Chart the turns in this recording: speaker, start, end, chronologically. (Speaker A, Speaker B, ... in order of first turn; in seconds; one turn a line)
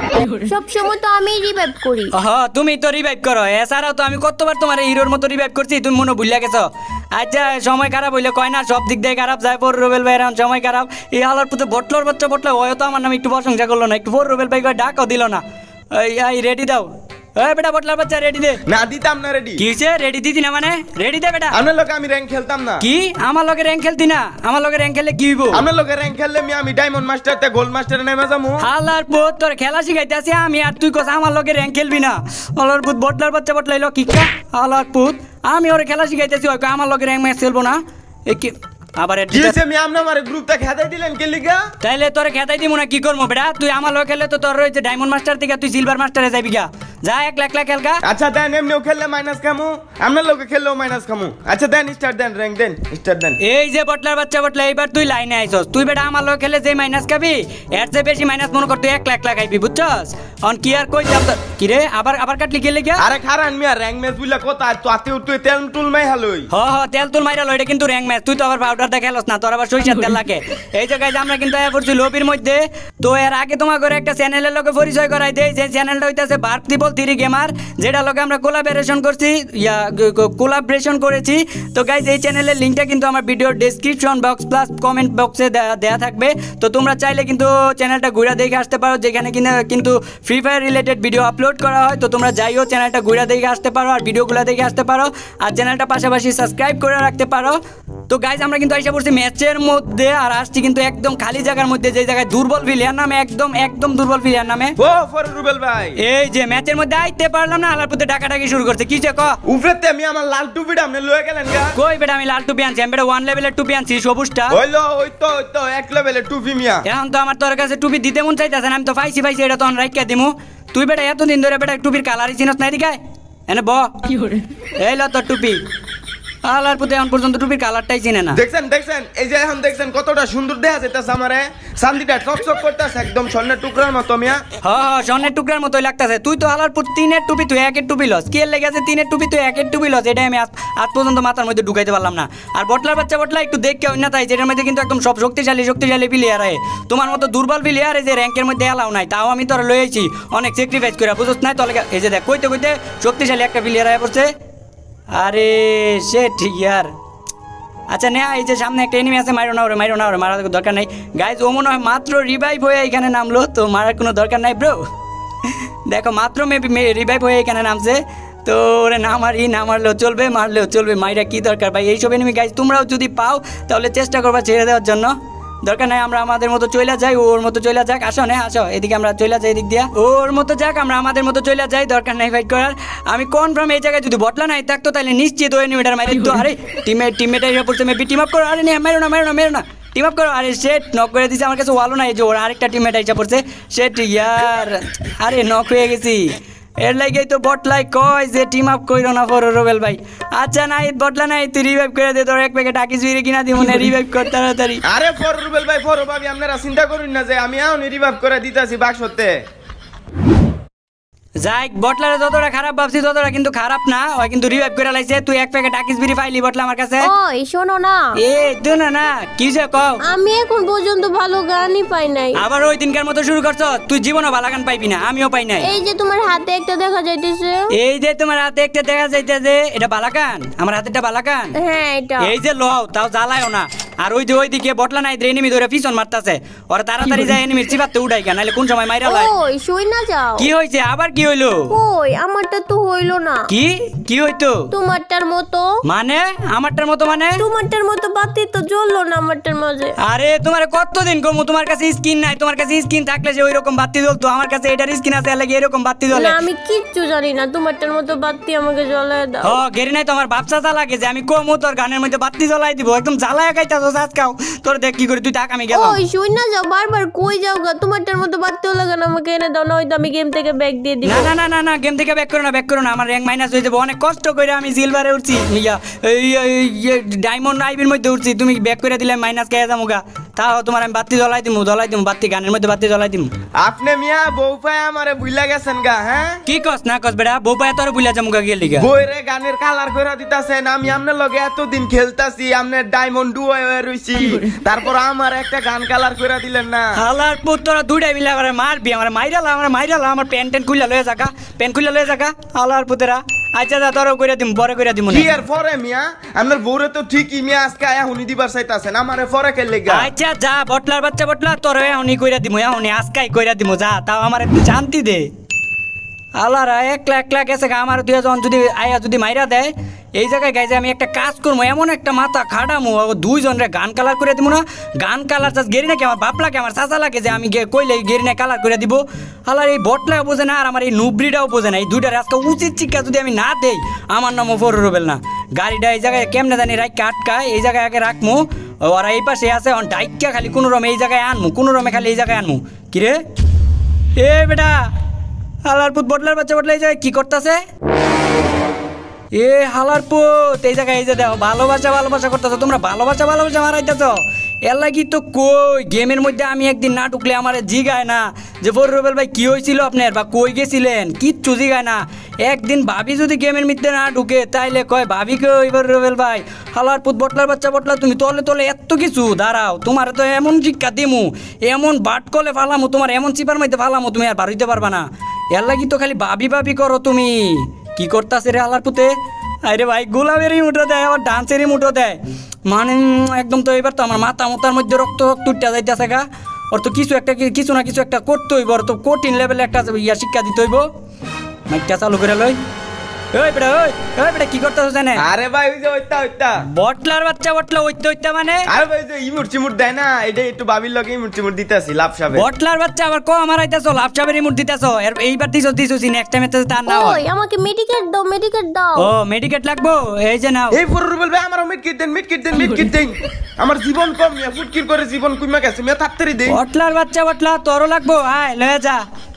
Speaker A: 0.4-2.1
Speaker B: 2.1-18.6
Speaker C: 18.6-19.6
Speaker B: 19.6-21.6
Speaker C: 21.5-22.8
Speaker B: 22.8-25.6
Speaker C: 25.5-28.6
Speaker B: 28.6-39.6
Speaker C: 39.3-41.7
Speaker B: 41.8-48.0
Speaker C: 48.0-53.4
Speaker B: 53.4-63.0
Speaker C: 63.0-66.5
Speaker B: 66.5-104.8
Speaker C: 104.8-106.0
Speaker B: 106.0-109.4
Speaker C: 109.5-111.7
Speaker B: 111.7-114.6
Speaker C: 114.5-116.8
Speaker B: 116.8-123.9
Speaker B: 124.8-125.6
Speaker B: 126.4-128.4
Speaker C: 128.3-134.4
Speaker B: 134.6-154.3
Speaker B: 155.1-156.9
Speaker B: 157.9-164.8
Speaker B: 165.8-204.8
Speaker C: 204.9-209.4
Speaker B: 211.4-217.1
Speaker A: 217.0-218.1
Speaker B: 218.2-220.0
Speaker A: 220.1-222.4
Speaker B: 222.3-225.7
Speaker A: 225.6-227.7
Speaker B: 227.7-231.5
Speaker A: 231.6-232.3
Speaker B: 232.2-239.3
Speaker A: 239.0-240.5
Speaker B: 240.4-241.7
Speaker A: 241.7-243.5
Speaker B: 243.5-244.7
Speaker A: 244.7-245.8
Speaker B: 245.8-247.4
Speaker A: 247.4-249.9
Speaker B: 250.0-256.4
Speaker A: 256.1-259.6
Speaker B: 259.4-266.0
Speaker A: 265.7-271.3
Speaker B: 271.0-283.3
Speaker C: 283.6-286.4
Speaker B: 286.4-288.9
Speaker C: 288.8-296.9
Speaker B: 296.9-305.3
Speaker C: 305.1-310.1
Speaker B: 309.9-315.3
Speaker B: 316.4-343.2
Speaker B: 344.2-344.9
Speaker B: 345.6-347.6
Speaker B: 349.3-390.9
Speaker B: 391.7-392.6
Speaker B: 393.3-395.2
Speaker C: 395.2-396.6
Speaker B: 396.7-398.7
Speaker C: 398.7-402.4
Speaker B: 402.3-407.2
Speaker A: 406.9-409.1
Speaker B: 409.0-410.8
Speaker C: 410.7-416.6
Speaker B: 416.5-419.0